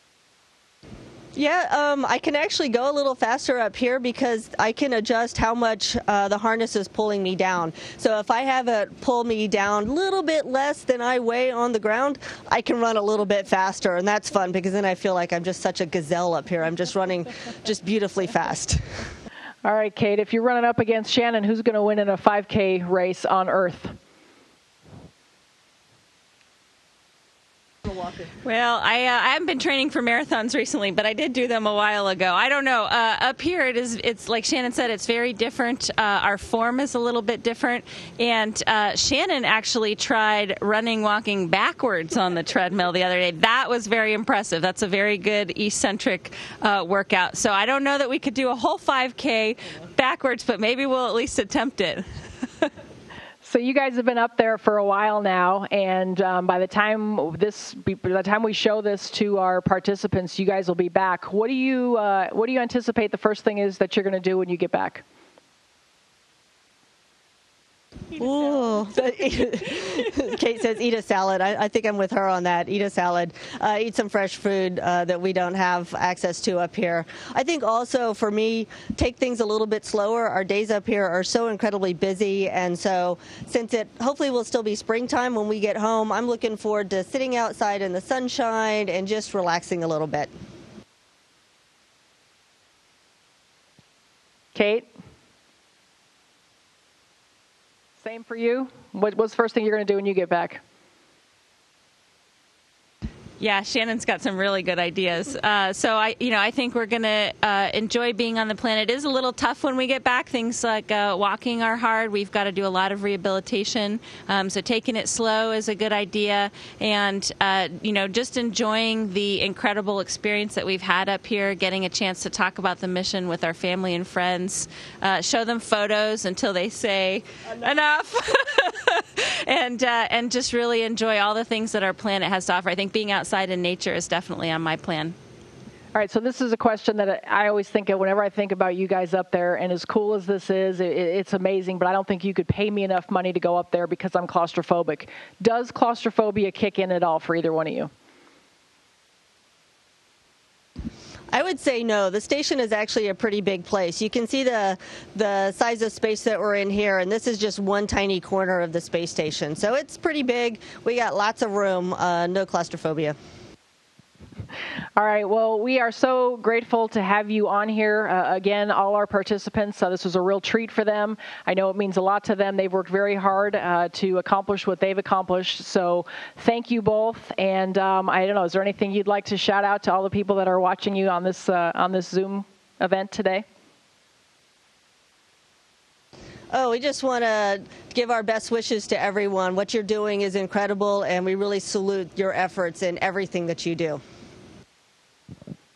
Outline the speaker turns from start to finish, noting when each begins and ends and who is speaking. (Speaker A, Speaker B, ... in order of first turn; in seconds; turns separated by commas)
Speaker A: 1.4-19.0, Speaker B: 19.6-23.9, Speaker C: 28.4-52.0, Speaker B: 53.4-65.0, Speaker A: 68.2-90.3, Speaker B: 94.5-94.9, Speaker B: 98.0-100.6, Speaker C: 103.4-135.2, Speaker B: 135.9-147.9, Speaker A: 151.3-163.2, Speaker B: 165.0-183.4, Speaker A: 186.5-194.0